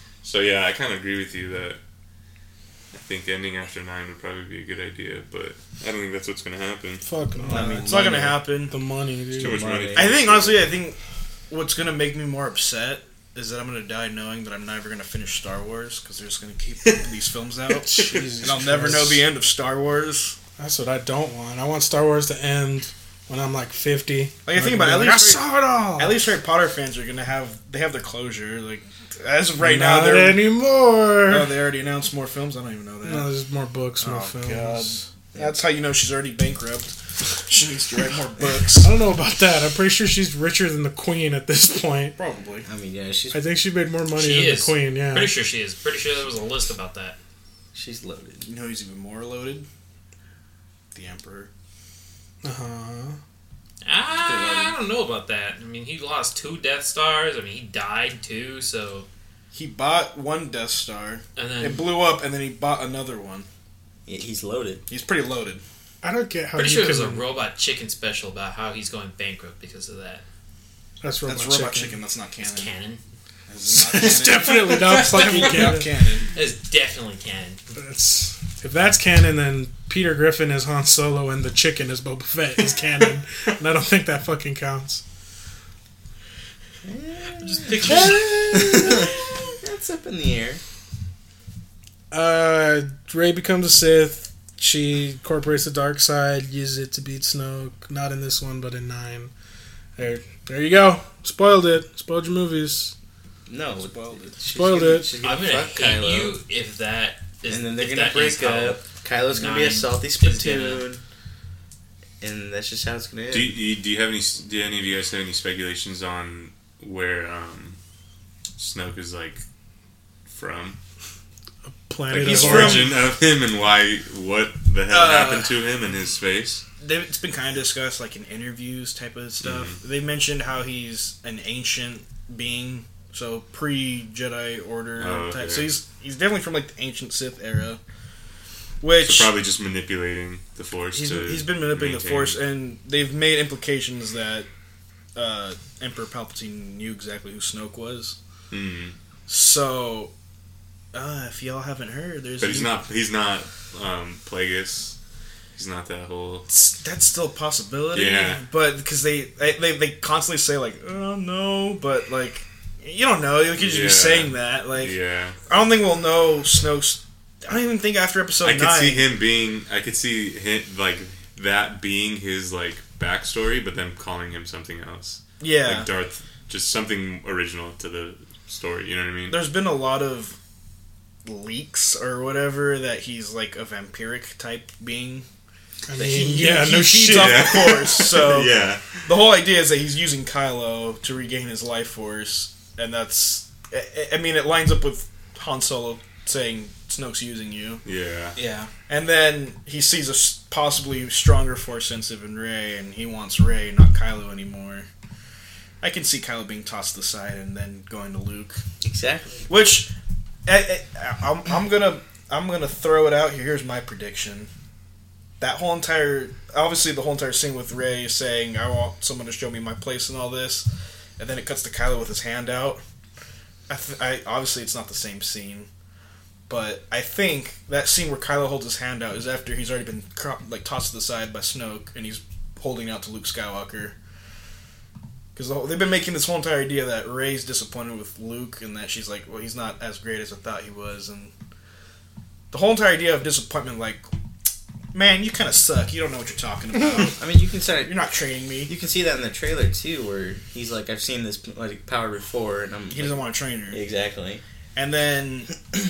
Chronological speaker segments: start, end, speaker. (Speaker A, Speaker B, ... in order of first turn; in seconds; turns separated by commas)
Speaker A: 0.2-1.8, Speaker A: 2.9-7.0, Speaker B: 7.0-8.1, Speaker C: 7.4-8.5, Speaker D: 7.5-8.8, Speaker B: 8.7-9.8, Speaker A: 9.3-10.6, Speaker C: 9.4-10.1, Speaker D: 9.9-11.0, Speaker D: 11.5-20.4, Speaker A: 17.8-18.3, Speaker B: 17.9-19.2, Speaker B: 20.6-26.2, Speaker D: 24.4-30.4, Speaker B: 29.6-31.5, Speaker D: 31.3-33.3, Speaker B: 33.0-35.0, Speaker D: 34.0-38.9, Speaker B: 38.7-42.1, Speaker D: 42.1-42.6, Speaker C: 42.6-43.4, Speaker B: 43.3-45.3, Speaker E: 44.1-47.2, Speaker C: 47.7-48.4, Speaker D: 48.4-49.7, Speaker D: 50.9-51.5, Speaker B: 52.4-53.2, Speaker E: 53.8-59.1, Speaker C: 54.2-54.8, Speaker D: 59.5-63.5, Speaker E: 61.4-61.9, Speaker C: 64.0-64.8, Speaker D: 64.9-65.6, Speaker B: 66.0-67.2, Speaker E: 66.5-70.2, Speaker B: 71.0-72.0, Speaker D: 71.3-72.7, Speaker E: 72.4-73.0, Speaker D: 73.5-76.3, Speaker B: 73.7-75.9, Speaker E: 74.6-75.8, Speaker E: 76.3-77.6, Speaker B: 77.7-85.0, Speaker C: 86.8-90.6, Speaker E: 87.3-88.6, Speaker B: 92.1-99.3, Speaker B: 100.0-102.9, Speaker C: 103.5-106.3, Speaker D: 103.8-104.3, Speaker B: 104.5-105.1, Speaker E: 105.2-110.8, Speaker C: 107.5-111.0, Speaker C: 112.2-113.6, Speaker A: 113.3-117.8, Speaker A: 118.6-119.4, Speaker A: 120.3-120.8, Speaker B: 121.7-123.0, Speaker D: 122.1-123.0, Speaker A: 122.1-126.6, Speaker D: 124.9-125.6, Speaker D: 126.8-137.8, Speaker A: 129.4-129.8, Speaker A: 135.0-135.7, Speaker D: 138.8-139.3, Speaker A: 139.0-142.4, Speaker D: 140.9-144.5, Speaker D: 145.1-148.2, Speaker A: 148.5-148.9, Speaker D: 149.3-150.1, Speaker D: 150.9-152.8, Speaker A: 152.4-154.9, Speaker A: 155.5-156.5, Speaker D: 156.5-164.9, Speaker A: 157.9-158.4, Speaker A: 163.6-165.3, Speaker D: 165.5-169.1, Speaker A: 168.4-179.4, Speaker D: 175.4-175.9, Speaker D: 179.3-180.3, Speaker D: 181.2-185.2, Speaker B: 185.9-187.8, Speaker D: 185.9-197.8, Speaker A: 187.1-189.1, Speaker A: 197.8-198.3, Speaker E: 198.4-198.7, Speaker D: 198.7-204.9, Speaker D: 205.8-208.6, Speaker C: 208.8-209.5, Speaker D: 209.5-209.9, Speaker D: 210.4-214.5, Speaker D: 215.4-220.7, Speaker D: 221.2-222.8, Speaker D: 223.7-225.7, Speaker D: 226.5-233.9, Speaker D: 235.3-241.3, Speaker D: 242.5-244.1, Speaker D: 244.9-247.2, Speaker C: 247.0-247.9, Speaker D: 247.8-248.7, Speaker C: 248.7-254.4, Speaker D: 252.9-253.8, Speaker D: 254.7-255.5